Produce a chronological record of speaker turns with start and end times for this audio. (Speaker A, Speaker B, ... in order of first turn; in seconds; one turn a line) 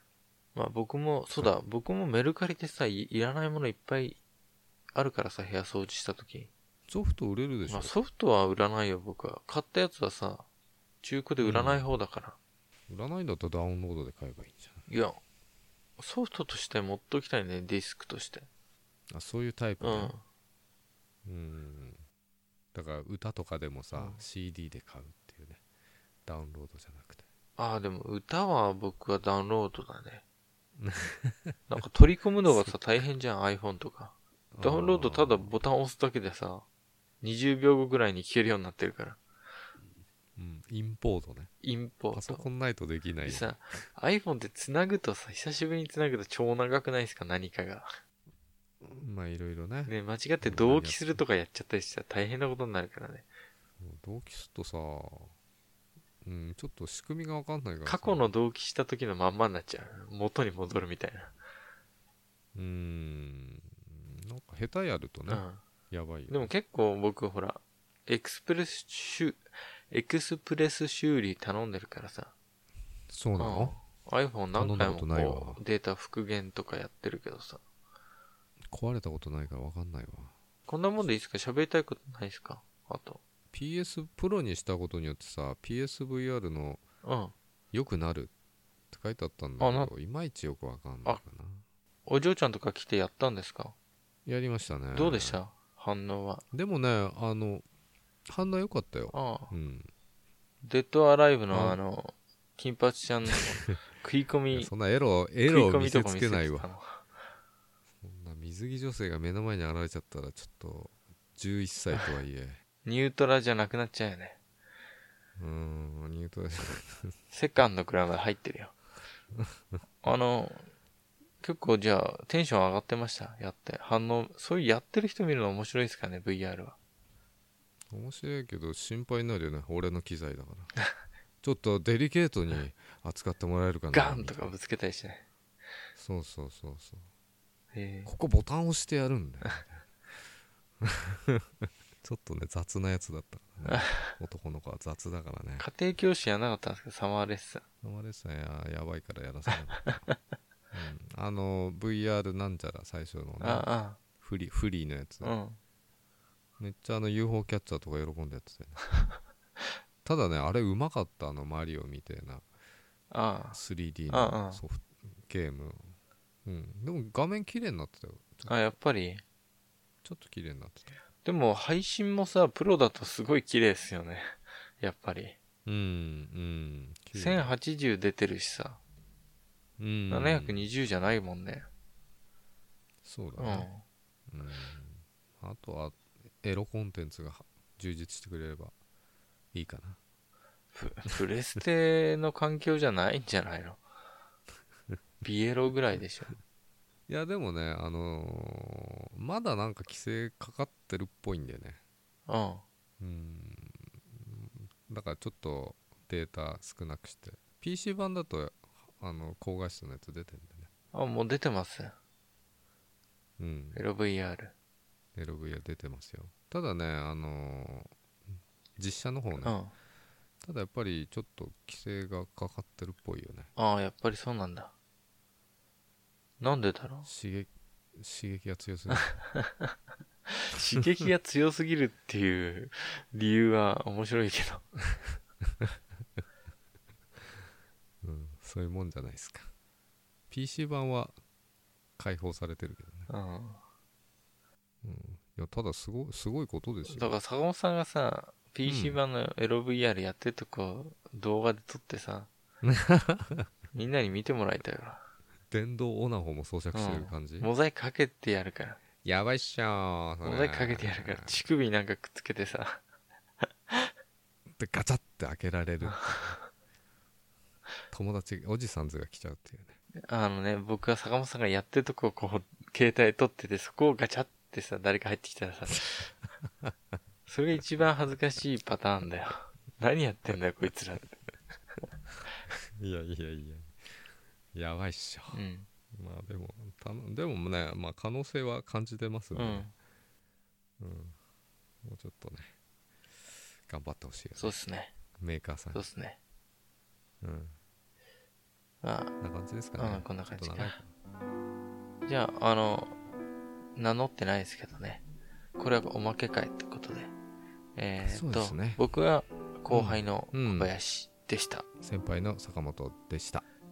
Speaker A: 0.6-4.2
Speaker A: 4.9-6.5
Speaker B: 6.9-7.9
Speaker A: 7.7-10.4
Speaker A: 11.0-12.4
Speaker B: 11.4-11.9
Speaker B: 12.9-14.9
Speaker A: 14.9-15.2
Speaker A: 16.0-18.5
Speaker B: 19.1-20.1
Speaker A: 19.8-20.2
Speaker B: 21.3-22.0
Speaker B: 22.7-25.6
Speaker A: 23.9-24.2
Speaker B: 26.3-27.3
Speaker A: 27.6-30.2
Speaker B: 30.8-31.8
Speaker A: 31.7-36.6
Speaker B: 32.5-32.8
Speaker B: 34.5-35.6
Speaker A: 37.2-39.2
Speaker B: 40.4-41.5
Speaker A: 41.6-42.5
Speaker B: 42.1-43.5
Speaker A: 43.2-47.9
Speaker B: 48.8-51.2
Speaker A: 49.9-53.3
Speaker B: 53.8-55.3
Speaker B: 56.2-58.3
Speaker A: 57.9-61.3
Speaker B: 62.5-66.5
Speaker A: 65.3-65.6
Speaker A: 66.3-72.3
Speaker B: 73.1-73.8
Speaker A: 73.4-77.6
Speaker B: 74.5-75.6
Speaker B: 78.7-80.3
Speaker A: 80.7-83.2
Speaker B: 83.5-86.8
Speaker A: 87.0-87.3
Speaker B: 87.7-88.3
Speaker B: 88.9-91.6
Speaker A: 89.6-89.9
Speaker A: 92.1-93.7
Speaker B: 94.3-95.4
Speaker A: 94.9-96.4
Speaker B: 96.5-97.6
Speaker B: 98.3-99.9
Speaker A: 99.1-99.5
Speaker A: 100.6-104.7
Speaker B: 101.5-101.8
Speaker B: 104.5-106.7
Speaker A: 105.5-107.0
Speaker B: 108.0-112.6
Speaker A: 112.8-114.4
Speaker B: 115.4-117.1
Speaker A: 117.3-118.7
Speaker B: 119.3-119.8
Speaker A: 120.0-120.7
Speaker A: 121.4-126.8
Speaker B: 127.9-130.8
Speaker B: 131.4-134.6
Speaker A: 133.9-135.2
Speaker B: 135.9-137.1
Speaker A: 137.7-138.1
Speaker B: 138.1-139.9
Speaker B: 140.8-145.7
Speaker A: 143.6-144.0
Speaker A: 145.6-147.6
Speaker B: 147.8-150.1
Speaker B: 150.7-153.7
Speaker A: 153.4-154.0
Speaker B: 154.2-155.3
Speaker A: 155.2-155.6
Speaker B: 156.6-158.9
Speaker B: 160.1-162.4
Speaker A: 163.1-163.6
Speaker B: 163.5-168.5
Speaker A: 164.1-164.6
Speaker A: 168.5-169.2
Speaker B: 170.0-170.9
Speaker A: 171.2-175.4
Speaker B: 175.7-177.5
Speaker A: 177.1-178.8
Speaker B: 179.8-180.7
Speaker A: 180.1-181.6
Speaker B: 183.0-183.7
Speaker A: 183.4-183.8
Speaker B: 184.3-188.7
Speaker B: 189.5-190.0
Speaker A: 190.7-193.8
Speaker A: 195.2-196.3
Speaker B: 197.1-201.8
Speaker A: 202.3-202.6
Speaker B: 203.0-210.7
Speaker A: 210.9-211.9
Speaker B: 213.4-213.8
Speaker A: 213.8-214.5
Speaker B: 215.1-217.9
Speaker B: 218.8-219.6
Speaker A: 219.4-219.7
Speaker B: 220.4-223.5
Speaker A: 223.6-224.7
Speaker A: 226.4-227.1
Speaker B: 227.0-229.1
Speaker A: 229.2-229.7
Speaker A: 230.4-234.7
Speaker B: 238.0-239.5
Speaker B: 240.3-241.2
Speaker B: 242.0-243.1
Speaker A: 243.1-243.6
Speaker B: 244.8-247.2
Speaker A: 246.9-252.3
Speaker B: 248.7-249.0
Speaker B: 252.6-253.5
Speaker A: 253.7-255.0
Speaker B: 255.5-257.5
Speaker A: 256.7-258.8
Speaker B: 259.0-261.4
Speaker A: 260.2-262.8
Speaker A: 263.4-263.9
Speaker B: 264.5-266.4
Speaker A: 265.9-266.3
Speaker B: 267.9-269.8
Speaker A: 270.1-276.1
Speaker A: 277.3-281.2
Speaker B: 282.8-285.4
Speaker A: 285.3-285.7
Speaker B: 285.9-289.7
Speaker A: 289.3-289.7
Speaker B: 290.8-291.2
Speaker B: 291.8-292.5
Speaker B: 293.6-294.6
Speaker A: 294.4-294.9
Speaker B: 295.2-295.9
Speaker A: 295.7-296.2
Speaker B: 297.2-297.6
Speaker A: 298.8-299.1
Speaker B: 299.2-300.9
Speaker A: 299.8-300.8
Speaker A: 302.1-302.9
Speaker A: 303.8-305.0
Speaker A: 305.6-307.1
Speaker A: 307.8-311.6
Speaker B: 308.0-308.8
Speaker B: 309.7-310.7
Speaker B: 311.8-313.4